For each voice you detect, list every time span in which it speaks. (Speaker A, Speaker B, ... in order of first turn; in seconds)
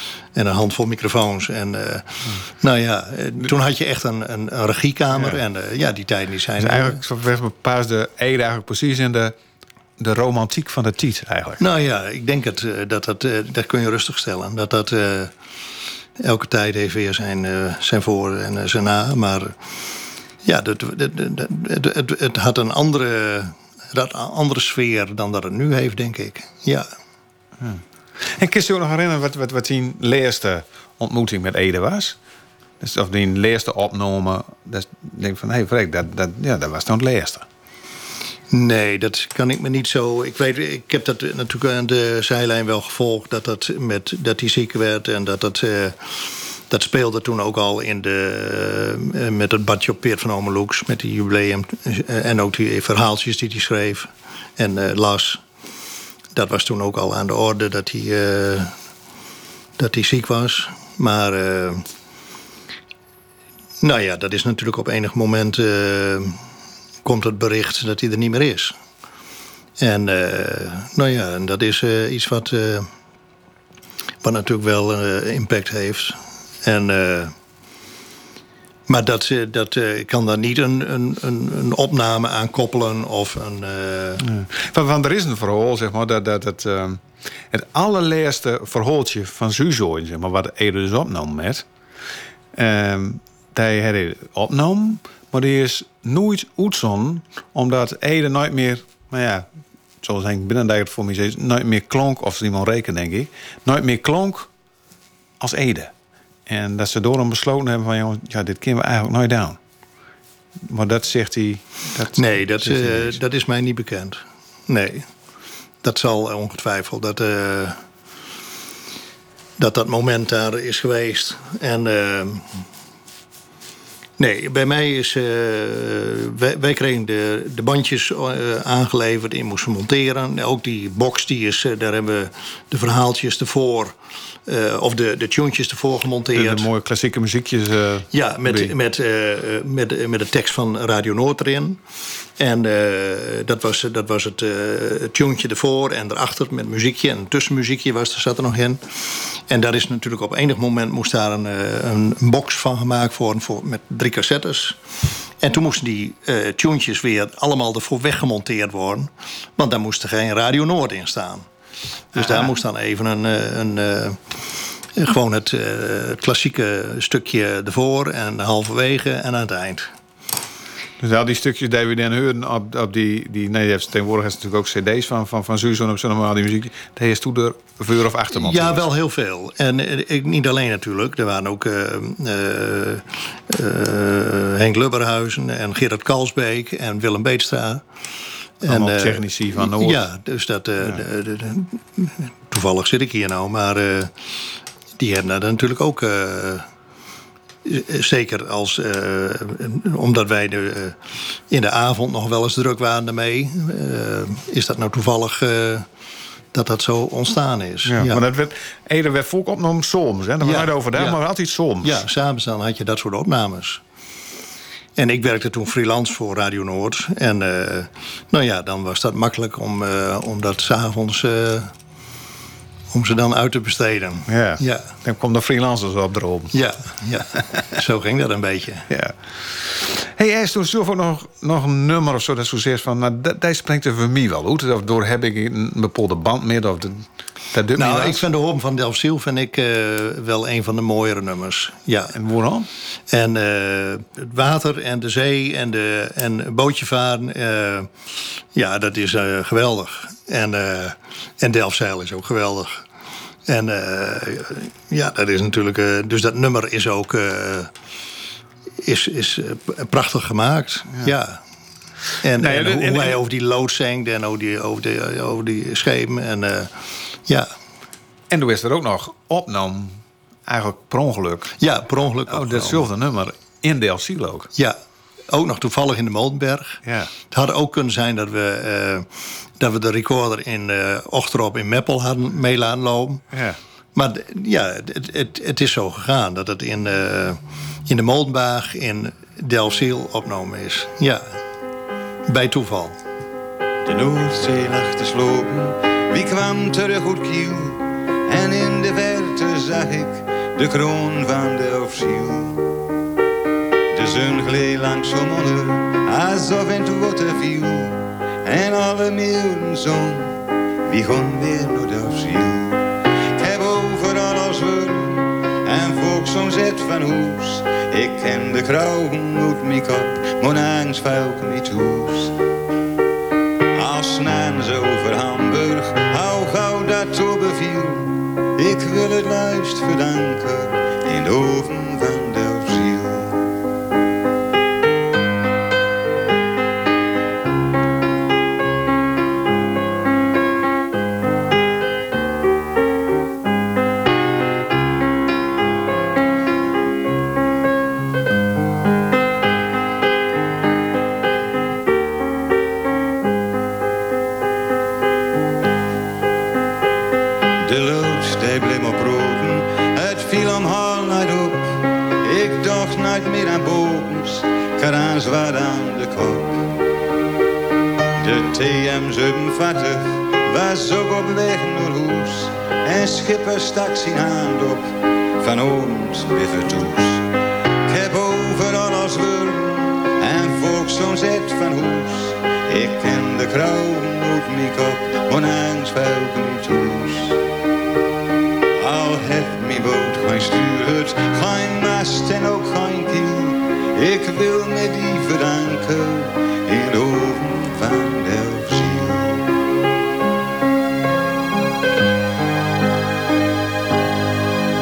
Speaker A: 0.3-7.0, 11.6-15.3, 16.2-19.5, 20.4-26.9, 38.5-55.4, 56.3-58.7, 59.8-61.8, 63.8-66.4, 67.0-68.7, 69.8-72.9, 74.2-77.3, 78.9-84.2, 112.1-115.0, 115.8-117.8, 119.6-122.6, 124.2-136.7, 138.1-141.8, 142.4-154.8, 155.4-161.4, 162.1-164.2, 165.0-169.9, 178.3-187.8, 188.6-194.1, 195.0-196.6, 197.6-201.0, 201.5-205.9, 206.5-208.2, 210.4-211.2, 211.8-213.8, 214.9-221.7, 222.9-224.9, 226.5-228.9, 237.7-242.2, 243.1-247.9, 248.5-252.8, 253.5-257.7, 258.8-261.4, 262.2-266.7, 271.6-272.9, 275.3-279.1, 279.6-283.2, 283.9-291.4, 292.3-293.0
Speaker B: 6.6-9.3, 10.0-11.6, 27.6-32.2, 32.8-37.4, 84.2-91.7, 92.5-99.5, 100.0-104.5, 105.4-105.9, 106.5-109.6, 110.6-113.2, 136.3-138.7, 162.1-162.5, 171.0-178.8, 188.7-190.1, 207.8-212.0, 224.3-226.6, 228.9-238.2, 242.1-242.7, 262.3-263.2, 268.3-271.5, 272.3-274.5, 276.8-277.1, 283.3-283.6
Speaker C: 293.8-302.6, 303.9-322.3, 323.7-333.4, 357.6-366.7, 368.1-377.3, 377.8-387.4, 388.8-399.4